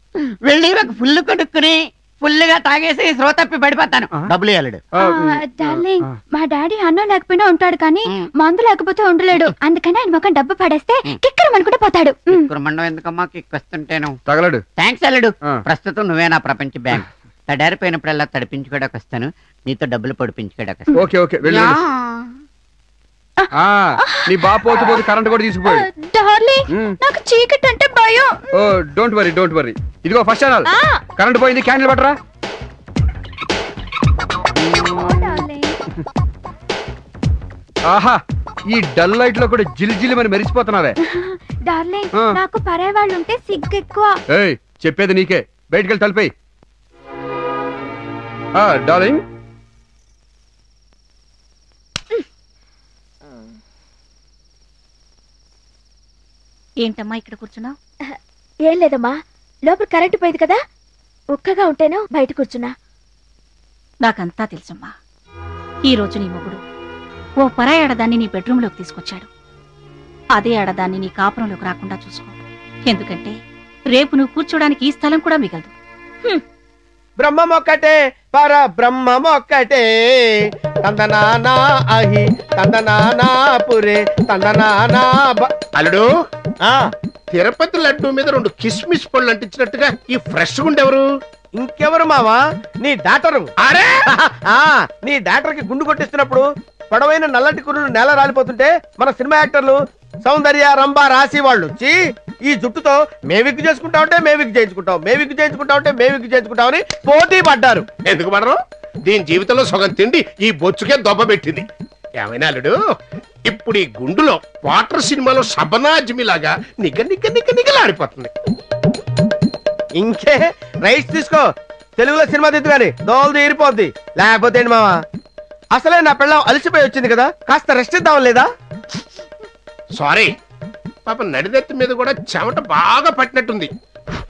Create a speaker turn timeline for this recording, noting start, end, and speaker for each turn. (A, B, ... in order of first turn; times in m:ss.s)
0:00.4-0:04.8 A
0:04.9-0:06.2 B
0:05.0-0:12.5 C
0:12.3-0:14.2 A
0:14.3-0:14.6 B
0:14.8-0:20.9 A
0:20.9-0:21.8 B
0:21.4-0:22.2 A
0:23.5-0:25.9 B
0:25.7-0:28.5 C
0:26.7-0:27.0 B
0:28.5-0:32.2 B
0:34.6-0:35.3 B
0:34.7-0:35.8 C
0:37.9-0:41.0 B
0:41.0-0:44.2 C
0:42.1-0:42.4 B
0:44.3-0:46.3 B
0:48.6-0:49.2 B
0:56.8-0:57.8 D
0:58.7-1:00.6 E
1:01.3-1:02.7 E
1:04.0-1:04.9 D
1:05.8-1:06.6 D
1:07.4-1:09.3 D
1:10.4-1:12.3 D
1:12.9-1:13.3 D
1:13.9-1:15.7 D
1:17.2-1:20.4 F
1:20.8-1:21.4 G
1:21.9-1:25.4 F
1:25.7-1:26.1 G
1:27.3-1:31.0 G
1:31.6-1:33.5 F
1:33.6-1:34.0 G
1:34.1-1:41.9 F
1:42.5-1:47.9 F
1:47.9-1:51.6 G
1:52.2-1:52.7 G
1:53.5-1:58.3 G
2:00.0-2:01.4 F
2:02.0-2:04.9 F
2:05.7-2:08.5 F
2:10.0-2:10.3 G
2:11.1-2:13.7 G